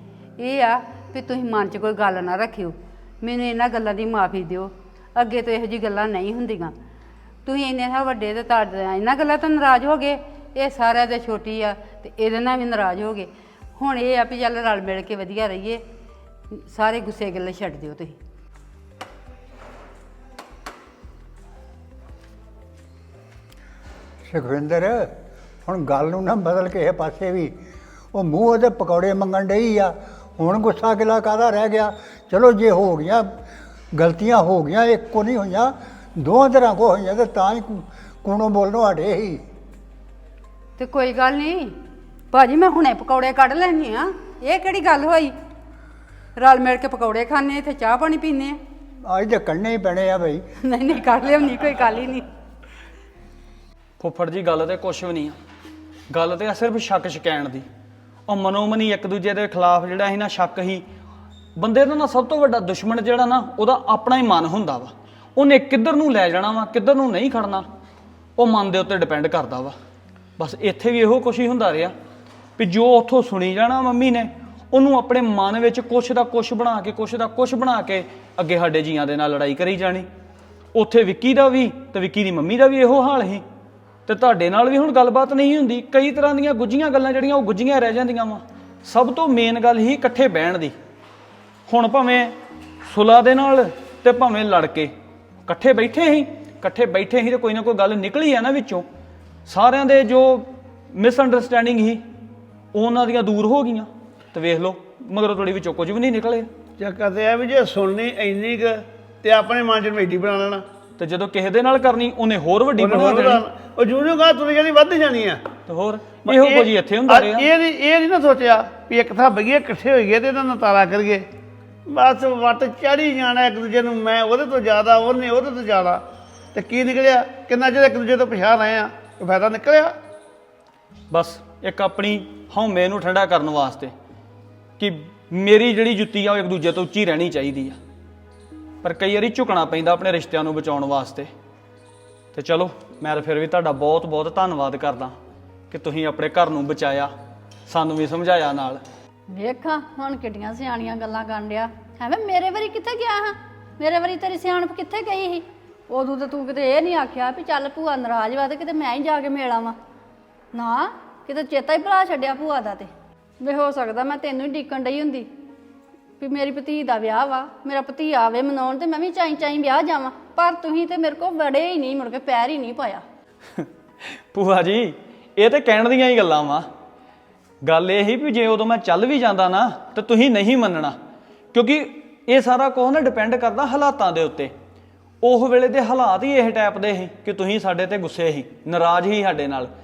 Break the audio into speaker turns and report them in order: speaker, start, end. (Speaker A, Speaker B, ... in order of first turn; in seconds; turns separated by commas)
Speaker A: 0.4-6.7, Speaker A: 7.4-15.8, Speaker A: 16.5-18.2, Speaker B: 24.2-27.6, Speaker B: 28.1-33.4, Speaker B: 33.9-39.4, Speaker A: 40.8-41.8, Speaker A: 42.3-45.3, Speaker A: 46.4-48.6, Speaker B: 49.0-50.4, Speaker A: 50.6-52.2, Speaker C: 54.0-55.4, Speaker C: 56.1-57.6, Speaker C: 58.3-60.8, Speaker C: 61.5-67.7, Speaker C: 68.4-69.8, Speaker C: 70.4-71.9, Speaker C: 72.6-80.1, Speaker C: 80.7-83.4, Speaker C: 84.1-90.7, Speaker C: 91.7-92.3, Speaker C: 92.9-94.9, Speaker C: 95.5-98.9, Speaker C: 99.5-102.0, Speaker C: 102.7-106.5, Speaker D: 106.8-110.6, Speaker C: 111.0-113.4, Speaker D: 112.8-115.4, Speaker C: 115.7-117.5, Speaker D: 116.3-121.2, Speaker D: 121.9-126.0, Speaker D: 126.5-129.9, Speaker C: 131.1-133.9, Speaker C: 134.8-137.8, Speaker C: 138.8-141.3, Speaker C: 142.3-145.1, Speaker C: 145.7-147.1, Speaker C: 147.7-148.8, Speaker E: 149.3-159.8, Speaker E: 160.5-165.3, Speaker E: 166.2-173.0, Speaker C: 174.3-176.7, Speaker C: 177.6-181.0, Speaker C: 181.5-184.5, Speaker C: 185.2-189.7